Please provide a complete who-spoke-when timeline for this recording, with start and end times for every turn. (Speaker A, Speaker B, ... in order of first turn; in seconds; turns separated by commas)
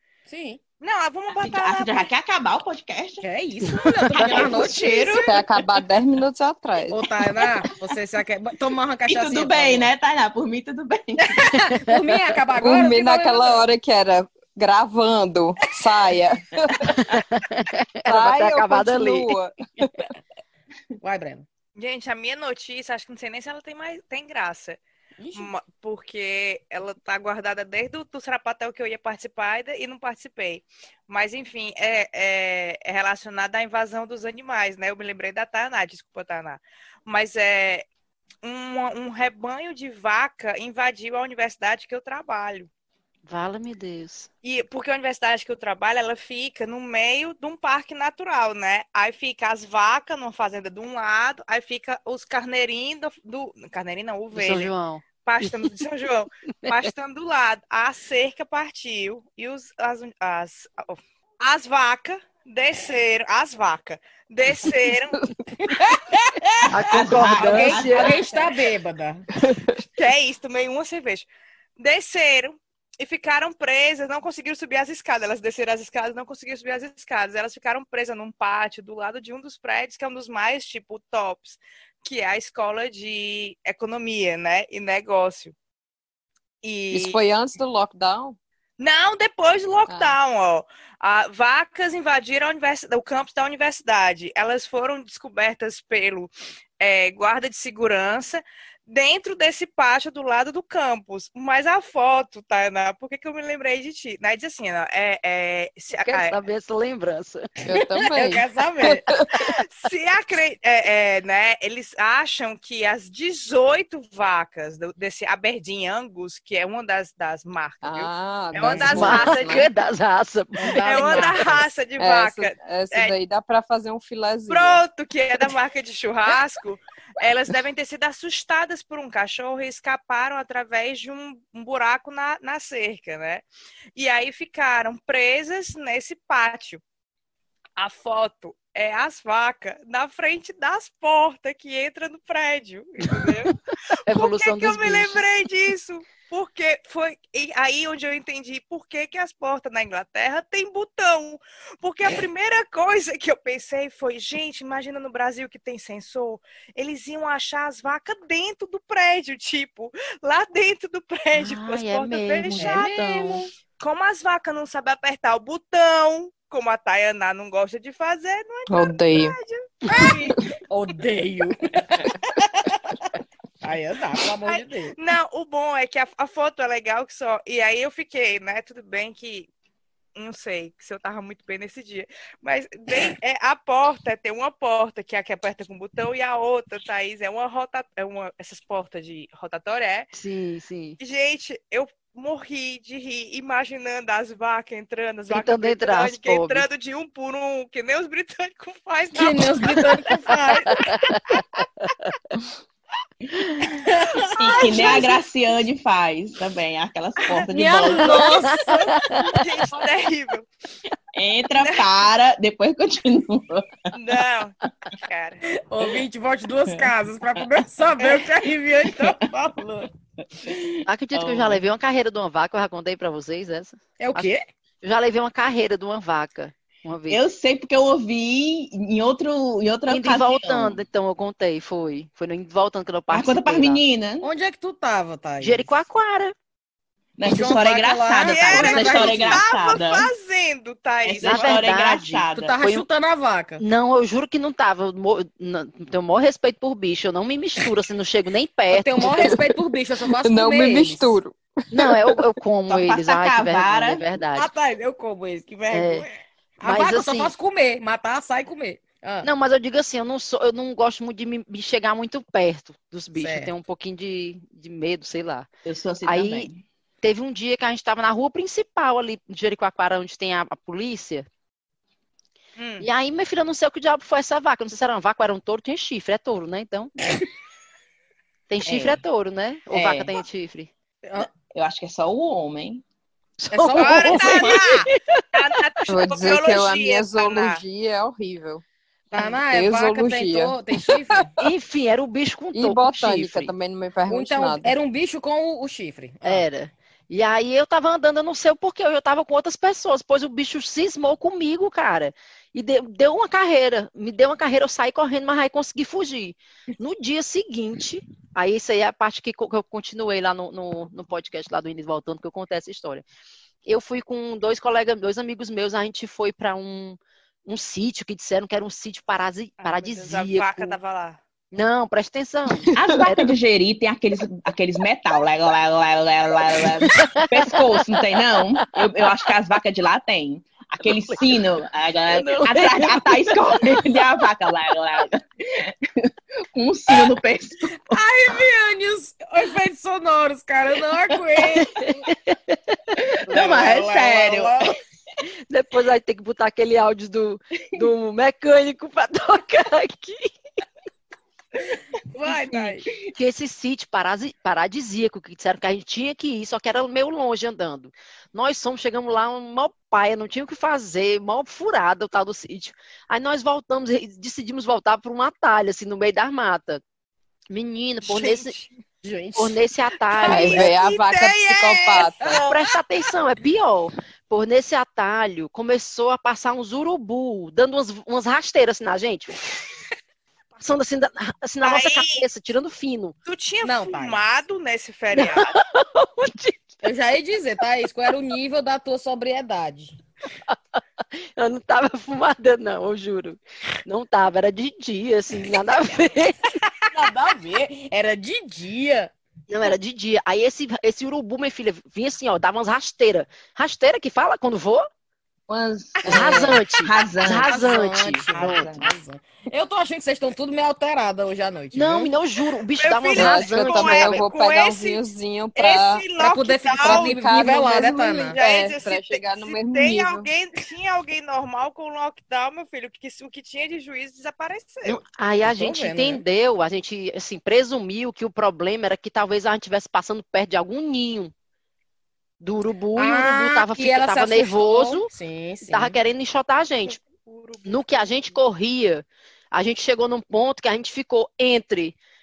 Speaker A: 0.3-0.6, Speaker B: 0.8-2.0, Speaker C: 1.4-3.3, Speaker A: 3.2-5.3, Speaker C: 4.1-5.3, Speaker B: 4.2-5.2, Speaker D: 5.2-7.0, Speaker A: 6.9-9.9, Speaker C: 9.1-11.6, Speaker A: 11.3-13.6, Speaker E: 11.5-12.0, Speaker D: 12.6-17.0, Speaker E: 16.9-19.3, Speaker D: 18.1-20.1, Speaker A: 21.0-21.4, Speaker B: 21.8-24.8, Speaker A: 25.2-25.5, Speaker B: 25.3-37.9, Speaker B: 38.4-42.7, Speaker E: 43.3-44.3, Speaker B: 44.4-54.7, Speaker E: 54.4-55.5, Speaker B: 55.2-65.2, Speaker A: 65.8-69.2, Speaker E: 66.7-68.1, Speaker C: 66.9-68.4, Speaker D: 69.4-69.8, Speaker B: 69.8-85.5, Speaker B: 86.6-87.2, Speaker D: 86.9-88.4, Speaker B: 88.8-106.4, Speaker D: 89.9-90.2, Speaker E: 106.0-107.7, Speaker D: 107.7-109.4, Speaker A: 108.0-109.0, Speaker B: 109.7-119.7, Speaker D: 117.8-119.7, Speaker A: 118.6-119.2, Speaker E: 118.9-121.4, Speaker A: 120.6-121.6, Speaker B: 120.7-123.1, Speaker D: 122.0-124.8, Speaker B: 124.5-136.8, Speaker B: 137.8-163.0, Speaker E: 144.0-145.2, Speaker E: 161.3-163.5, Speaker A: 162.5-163.5, Speaker B: 163.8-170.3, Speaker D: 168.7-169.4, Speaker A: 169.9-175.0, Speaker B: 174.4-179.5, Speaker B: 180.2-190.1, Speaker E: 190.1-191.0, Speaker B: 191.0-200.9, Speaker E: 195.3-196.7, Speaker A: 199.1-200.9, Speaker E: 200.7-201.1, Speaker A: 203.8-205.1, Speaker C: 204.3-208.6, Speaker A: 207.5-209.2, Speaker E: 208.3-209.2, Speaker B: 209.2-210.5, Speaker C: 211.2-213.8, Speaker B: 211.6-211.9, Speaker B: 213.9-215.4, Speaker A: 215.4-219.9, Speaker C: 218.0-218.3, Speaker C: 218.8-219.2, Speaker C: 220.3-221.6, Speaker E: 220.9-224.3, Speaker A: 224.0-224.4, Speaker E: 224.8-227.2, Speaker C: 227.1-230.8, Speaker E: 229.9-233.8, Speaker C: 233.1-234.3, Speaker A: 234.2-235.7, Speaker E: 235.4-236.3, Speaker C: 237.2-240.1, Speaker A: 237.3-239.5, Speaker B: 238.3-241.6, Speaker C: 241.1-242.6, Speaker E: 241.2-242.8, Speaker A: 242.3-243.6, Speaker E: 243.6-249.4, Speaker A: 248.7-251.2, Speaker D: 249.0-249.6, Speaker D: 250.2-252.2, Speaker E: 251.7-254.5, Speaker C: 252.7-254.1, Speaker A: 254.3-259.3, Speaker E: 255.7-256.1, Speaker E: 256.6-257.3, Speaker E: 259.2-265.5, Speaker A: 263.2-263.5, Speaker C: 265.7-266.6, Speaker E: 266.1-266.5, Speaker E: 267.0-271.3, Speaker B: 272.6-272.9, Speaker E: 272.8-276.9, Speaker E: 278.5-280.7, Speaker C: 278.7-279.0, Speaker C: 279.7-280.1, Speaker C: 281.4-282.8, Speaker E: 283.4-285.5, Speaker A: 283.5-284.6, Speaker C: 284.1-284.8, Speaker B: 284.2-287.6, Speaker D: 285.9-288.6, Speaker A: 289.1-291.3, Speaker D: 289.4-291.3, Speaker E: 291.4-293.5, Speaker D: 292.5-294.8, Speaker A: 294.1-296.5, Speaker E: 296.2-313.1, Speaker E: 313.7-320.8, Speaker B: 319.6-321.2, Speaker E: 321.5-323.4, Speaker C: 322.7-337.8, Speaker E: 327.0-327.5, Speaker E: 331.1-331.4, Speaker E: 332.1-334.0, Speaker A: 337.9-341.9, Speaker E: 341.4-342.9, Speaker C: 343.0-344.7, Speaker A: 343.3-344.7, Speaker E: 345.5-350.4, Speaker A: 352.1-352.9, Speaker C: 352.3-353.1, Speaker E: 353.1-366.8, Speaker E: 367.5-368.5, Speaker B: 368.1-368.7, Speaker A: 369.0-369.6, Speaker E: 369.4-370.7, Speaker B: 370.1-372.1, Speaker D: 370.2-372.4, Speaker A: 372.2-372.5, Speaker E: 372.4-379.4, Speaker E: 380.6-383.1, Speaker B: 381.6-382.2, Speaker B: 383.3-385.6, Speaker A: 383.6-384.2, Speaker E: 385.2-386.7, Speaker A: 386.8-389.9, Speaker E: 390.5-396.5, Speaker A: 396.8-399.1, Speaker E: 399.5-404.9, Speaker C: 405.5-408.9, Speaker E: 406.1-408.9, Speaker A: 407.4-412.1, Speaker E: 411.7-414.2, Speaker B: 412.8-415.0, Speaker A: 413.2-413.6, Speaker D: 413.2-416.0, Speaker B: 415.6-417.1, Speaker A: 416.2-418.4, Speaker D: 416.8-420.3, Speaker B: 418.3-425.0, Speaker E: 424.9-431.3, Speaker A: 425.4-426.2, Speaker E: 432.4-435.1, Speaker A: 433.0-436.0, Speaker E: 435.6-437.0, Speaker B: 437.0-437.8, Speaker E: 437.6-442.0